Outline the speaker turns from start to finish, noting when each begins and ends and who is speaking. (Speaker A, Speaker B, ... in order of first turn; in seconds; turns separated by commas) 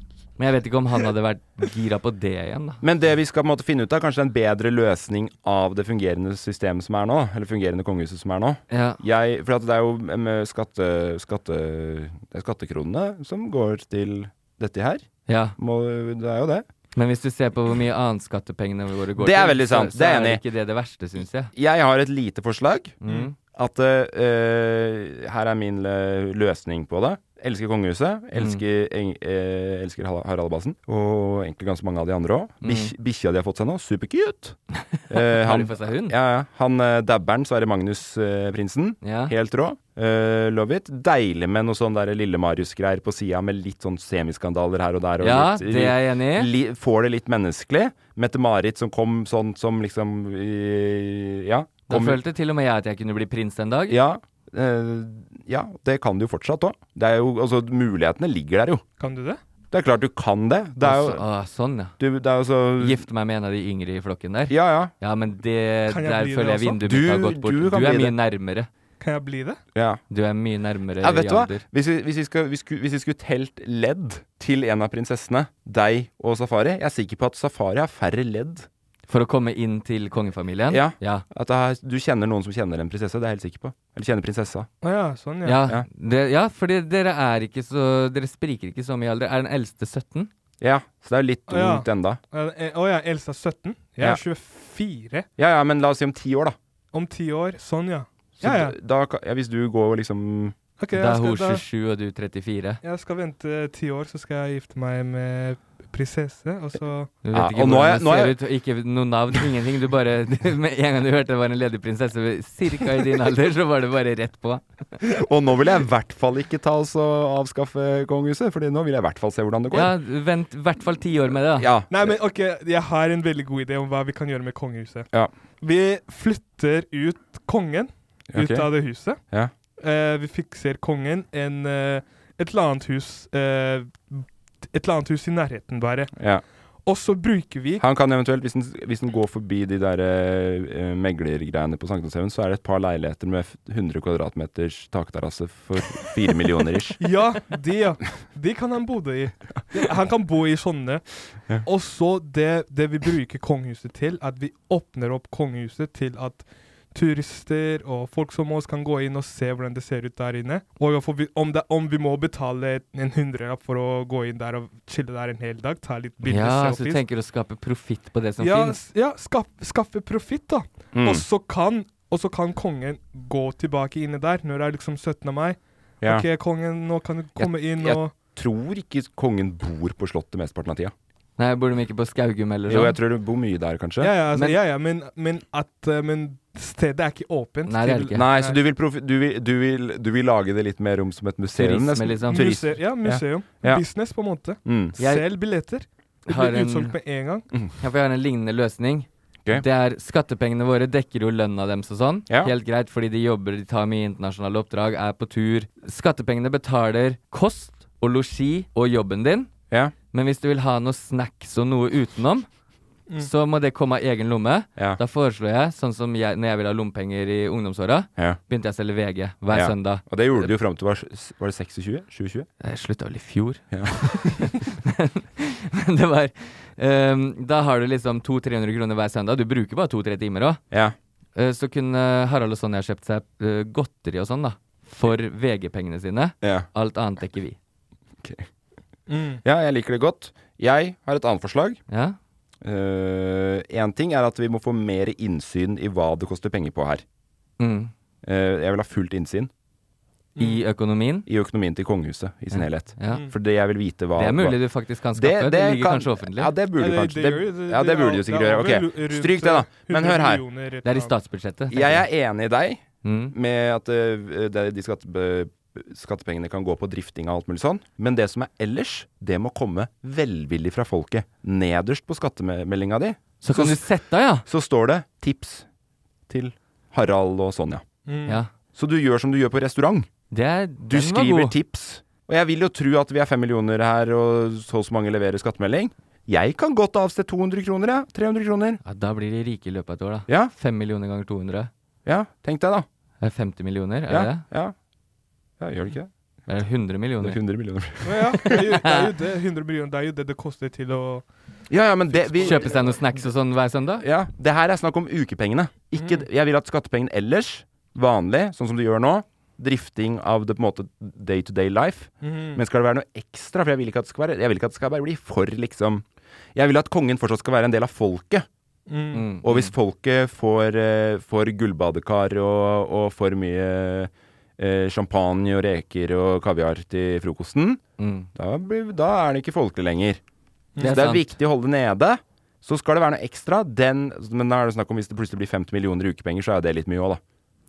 Speaker A: 0.4-2.8, Speaker B: 2.8-15.1, Speaker A: 8.7-9.0, Speaker A: 15.3-15.6, Speaker B: 15.6-16.6, Speaker A: 16.9-21.5, Speaker B: 19.2-20.4, Speaker B: 21.5-23.0, Speaker A: 23.0-23.3, Speaker B: 23.5-34.6, Speaker A: 28.4-28.6, Speaker A: 32.6-32.9, Speaker A: 34.9-36.1, Speaker B: 35.1-52.2, Speaker A: 39.0-39.3, Speaker A: 45.2-46.5, Speaker A: 51.9-54.0, Speaker B: 53.9-58.8, Speaker C: 59.0-59.4, Speaker B: 59.7-61.2, Speaker A: 60.8-61.9, Speaker B: 62.0-63.0, Speaker A: 62.8-68.7, Speaker B: 64.5-64.9, Speaker C: 65.9-66.8, Speaker B: 66.8-68.1, Speaker C: 69.0-69.6, Speaker B: 69.7-70.0, Speaker A: 70.1-71.6, Speaker B: 71.0-78.7, Speaker A: 79.1-81.2, Speaker B: 80.7-84.7, Speaker C: 84.8-85.6, Speaker A: 85.4-90.3, Speaker B: 90.6-92.2, Speaker C: 91.5-95.3, Speaker B: 95.4-96.5, Speaker C: 96.9-98.7, Speaker B: 98.4-100.5, Speaker C: 100.8-101.6, Speaker A: 100.9-102.8, Speaker C: 102.8-107.1, Speaker A: 107.2-114.6, Speaker B: 107.3-108.4, Speaker B: 115.0-119.9, Speaker A: 119.7-121.7, Speaker B: 121.5-122.1, Speaker C: 121.9-125.1, Speaker C: 125.6-129.2, Speaker B: 128.3-128.7, Speaker C: 129.8-136.1, Speaker B: 136.2-136.4, Speaker C: 136.8-137.8, Speaker B: 137.8-147.0, Speaker C: 147.0-151.1, Speaker C: 151.6-167.0, Speaker A: 166.2-168.8, Speaker C: 168.4-178.1, Speaker B: 170.9-171.2, Speaker B: 176.0-176.2, Speaker B: 177.4-180.9, Speaker A: 181.4-183.0, Speaker B: 182.7-184.1, Speaker C: 184.0-188.6, Speaker A: 184.3-184.6, Speaker A: 187.7-188.2, Speaker B: 188.1-193.8, Speaker A: 191.5-192.5, Speaker C: 192.3-197.5, Speaker B: 194.6-194.9, Speaker A: 195.0-195.3, Speaker A: 196.3-196.9, Speaker A: 197.8-209.5, Speaker A: 210.1-212.4, Speaker A: 213.2-220.5, Speaker B: 219.5-222.5, Speaker A: 222.6-230.6, Speaker B: 223.7-224.4, Speaker A: 231.3-237.6, Speaker B: 236.4-236.7, Speaker C: 239.1-239.4, Speaker B: 239.4-241.8, Speaker A: 241.9-242.2, Speaker B: 242.6-247.0, Speaker A: 247.6-247.9, Speaker B: 248.2-249.5, Speaker C: 250.4-250.6, Speaker A: 250.4-251.3, Speaker B: 251.3-254.6, Speaker A: 252.5-253.3, Speaker A: 254.2-256.5, Speaker B: 255.1-260.4, Speaker C: 256.8-261.1, Speaker A: 260.8-262.0, Speaker B: 261.7-273.8, Speaker A: 263.0-263.3, Speaker A: 273.4-274.4, Speaker B: 274.4-275.6, Speaker B: 276.3-277.8, Speaker C: 278.1-278.4, Speaker B: 278.7-280.1, Speaker A: 280.3-281.5, Speaker B: 280.8-288.8, Speaker A: 288.8-291.7, Speaker B: 292.1-292.9, Speaker A: 293.2-294.4, Speaker B: 294.1-294.7, Speaker B: 295.6-296.1, Speaker A: 296.5-297.4, Speaker B: 297.2-298.5, Speaker C: 298.0-301.3, Speaker B: 301.7-302.8, Speaker C: 302.1-303.0, Speaker A: 302.4-304.0, Speaker B: 304.0-318.5, Speaker C: 305.9-306.2, Speaker C: 312.2-312.6, Speaker C: 318.9-319.3, Speaker A: 319.1-319.7, Speaker B: 319.4-327.8, Speaker A: 328.0-328.3, Speaker B: 328.3-330.2, Speaker C: 330.8-331.0, Speaker A: 330.8-331.3, Speaker B: 330.8-337.2